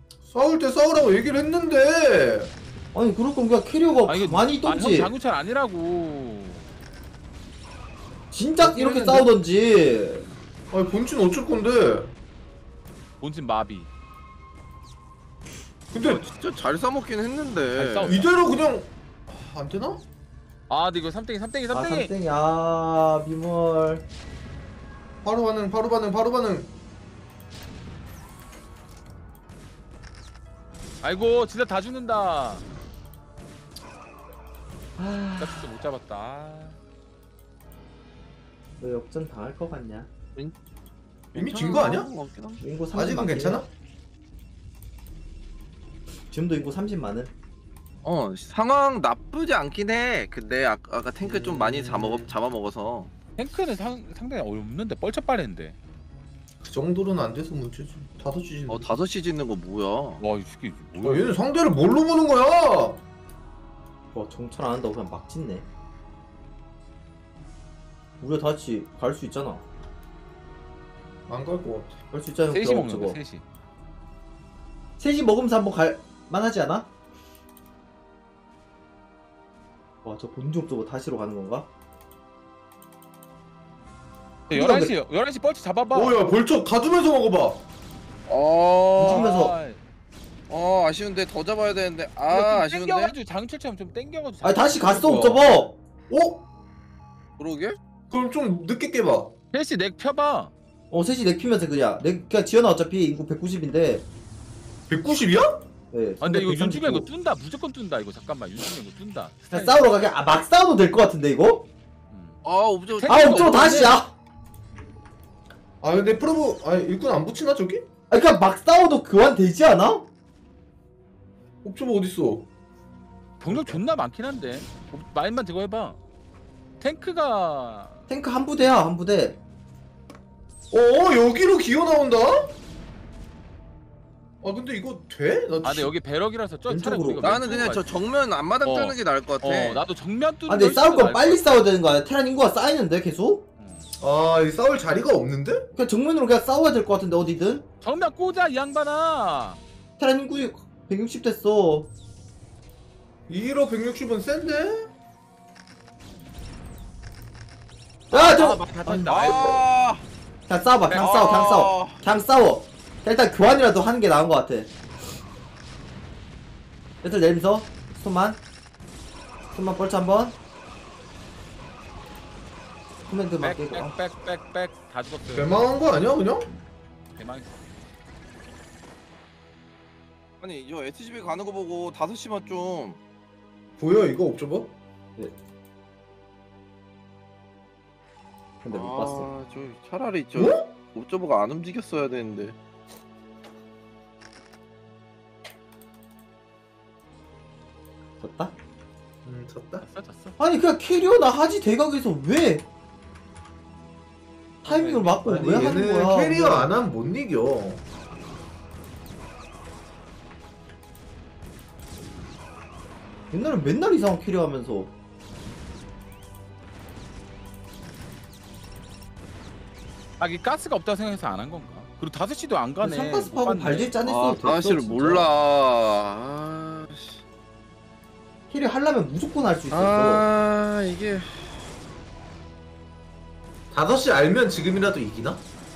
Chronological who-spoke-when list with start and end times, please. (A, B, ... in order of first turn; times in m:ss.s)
0:00.3-0:02.5 A
0:02.9-0:05.1 B
0:04.1-0:06.7 C
0:08.3-0:10.2 B
0:08.6-0:09.2 D
0:10.7-0:12.1 A
0:13.2-0:13.9 C
0:15.9-0:16.2 A
0:16.0-0:18.3 D
0:17.8-0:18.4 C
0:18.0-0:20.0 A
0:20.7-0:22.1 C
0:21.7-0:24.0 B
0:25.2-0:26.7 A
0:31.0-0:32.6 C
0:35.0-0:35.7 B
0:35.4-0:36.8 C
0:38.8-0:40.1 B
0:41.3-0:42.6 D
0:41.4-0:42.1 A
0:42.6-0:43.6 B
0:43.0-0:43.7 A
0:46.3-0:47.3 B
0:48.0-0:53.1 D
0:51.2-0:52.3 A
0:53.4-0:55.8 C
0:56.6-0:58.9 A
0:58.7-1:00.2 D
1:00.2-1:01.4 C
1:01.0-1:03.0 A
1:04.1-1:05.6 B
1:08.2-1:09.6 B
1:11.3-1:12.0 A
1:12.1-1:13.2 B
1:12.5-1:13.4 C
1:15.0-1:16.9 B
1:20.0-1:21.7 B
1:24.5-1:24.9 B
1:24.5-1:26.2 C
1:25.9-1:27.6 A
1:28.3-1:29.3 D
1:29.0-1:29.6 B
1:29.1-1:29.8 C
1:30.5-1:33.2 D
1:32.3-1:35.5 C
1:34.4-1:35.7 B
1:34.9-1:35.6 A
1:36.1-1:36.4 A
1:37.4-1:37.8 D
1:38.1-1:39.3 A
1:39.5-1:40.5 C
1:40.9-1:44.0 B
1:44.9-1:45.6 A
1:45.9-1:47.1 B
1:46.2-1:49.8 C
1:49.5-1:51.7 B
1:52.1-1:52.4 C
1:52.4-1:54.0 D
1:53.0-1:54.0 C
1:53.1-1:54.1 B
1:55.8-1:57.9 A
1:58.1-2:00.1 B
2:01.6-2:02.5 A
2:03.4-2:06.0 C
2:03.5-2:03.8 A
2:06.8-2:08.1 C
2:08.1-2:09.4 B
2:10.7-2:12.5 A
2:14.4-2:15.9 A
2:15.6-2:17.9 C
2:16.7-2:17.4 B
2:17.2-2:19.8 D
2:18.6-2:21.6 C
2:20.5-2:23.4 B
2:23.6-2:23.9 C
2:24.0-2:25.7 A
2:25.7-2:27.7 B
2:27.8-2:29.6 C
2:30.0-2:31.9 B
2:33.3-2:34.9 A
2:38.1-2:38.7 B
2:38.1-2:39.6 C
2:38.8-2:39.6 A
2:39.1-2:40.0 D
2:40.5-2:44.7 B
2:40.9-2:41.5 C
2:41.0-2:42.0 D
2:47.0-2:48.4 B
2:49.5-2:50.4 B
2:53.1-2:54.0 B
2:53.4-2:55.8 C
2:55.3-2:56.5 A
2:57.2-2:57.6 C
3:00.4-3:03.0 D
3:03.8-3:04.7 A
3:08.6-3:09.3 B
3:08.7-3:12.6 D
3:10.4-3:10.7 A
3:18.2-3:18.5 B
3:19.2-3:19.9 A
3:19.9-3:20.4 C
3:20.4-3:22.6 B
3:24.6-3:26.7 B
3:24.6-3:25.6 C
3:25.2-3:27.8 A
3:33.3-3:34.9 B
3:40.2-3:43.9 C
3:42.8-3:45.3 B
3:44.0-3:47.2 D
3:48.5-3:50.2 B
3:49.7-3:51.5 D
3:53.7-3:55.4 A